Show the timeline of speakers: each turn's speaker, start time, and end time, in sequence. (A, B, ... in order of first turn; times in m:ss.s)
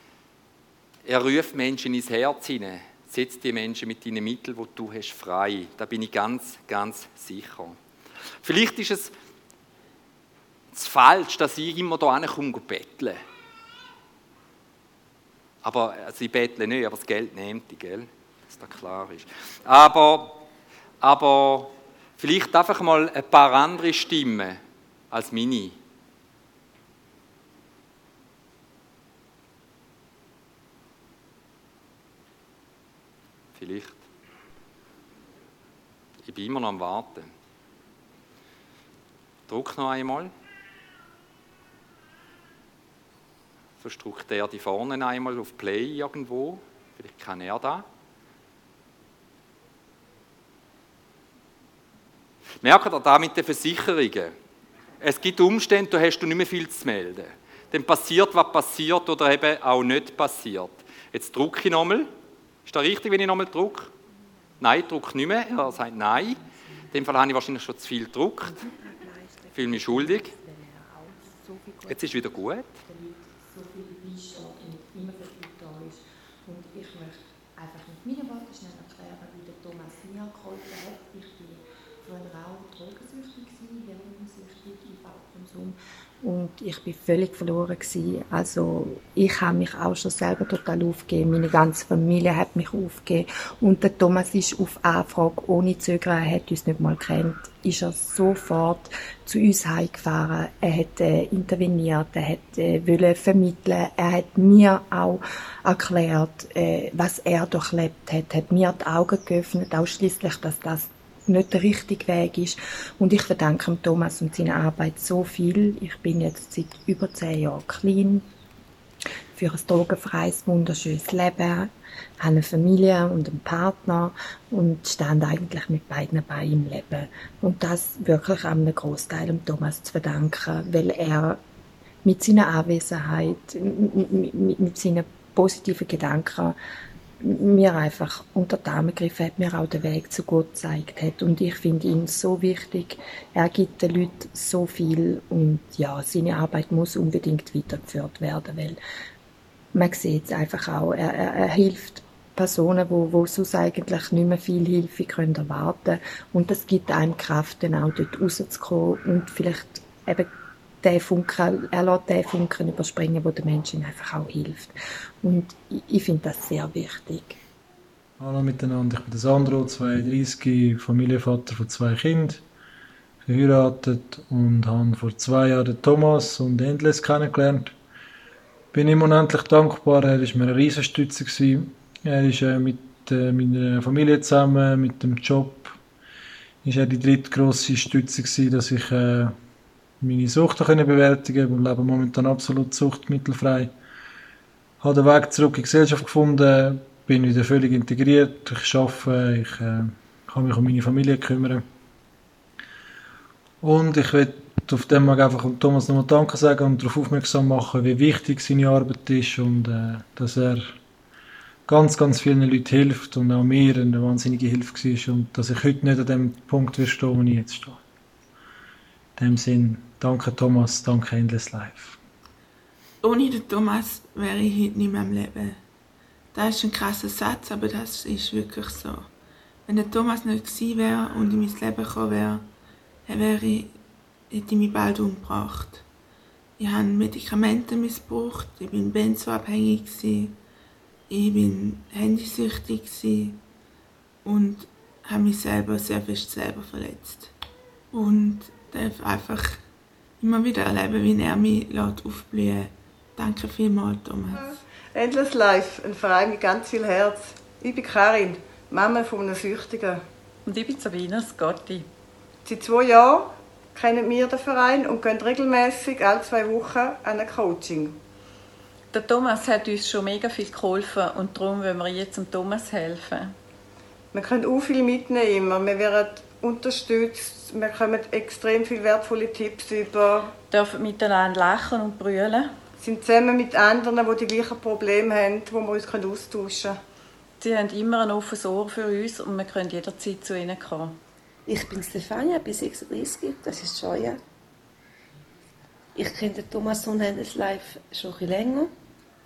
0:01.0-0:07.8 A
0:08.4-0:09.1 A
0:10.7-0:13.2 A
0:15.6-0:20.4 A
0:21.0-0:24.6 A
0:25.1-0:25.8 A
0:33.5-0:34.0 A
0:36.2-0:37.3 A
0:39.5-0:40.3 A
0:43.8-0:47.8 A
0:52.6-0:54.3 A
0:55.0-1:02.1 A
1:02.7-1:03.9 A
1:04.6-1:06.4 A
1:05.6-1:07.0 B
1:06.9-1:08.6 A
1:08.4-1:58.2 B
1:09.5-1:10.3 A
1:11.9-1:12.7 A
1:59.4-2:11.4 B
2:12.0-2:16.6 B
2:17.2-2:28.8 B
2:29.7-2:40.3 B
2:40.8-2:47.4 B
2:48.2-2:52.4 C
2:53.2-2:57.7 C
2:58.7-3:05.7 C
3:06.6-3:09.4 C
3:10.0-3:13.7 C
3:14.8-3:21.6 C
3:23.6-3:30.8 C
3:31.7-3:37.8 C
3:39.2-3:42.0 C
3:43.0-3:45.6 D
3:46.3-3:49.1 D
3:49.7-3:52.5 D
3:53.0-3:53.8 D
3:54.3-3:55.8 D
3:56.6-4:00.4 D
4:01.1-4:03.4 D
4:04.2-4:07.3 D
4:07.9-4:09.6 D
4:10.2-4:14.6 D
4:14.4-4:20.0 E
4:20.4-4:21.9 F
4:22.4-4:28.0 E
4:28.9-4:33.3 F
4:34.1-4:40.3 E
4:40.5-4:42.6 F
4:42.8-4:46.8 E
4:47.4-4:51.0 F
4:51.5-4:54.2 G
4:56.0-4:58.7 G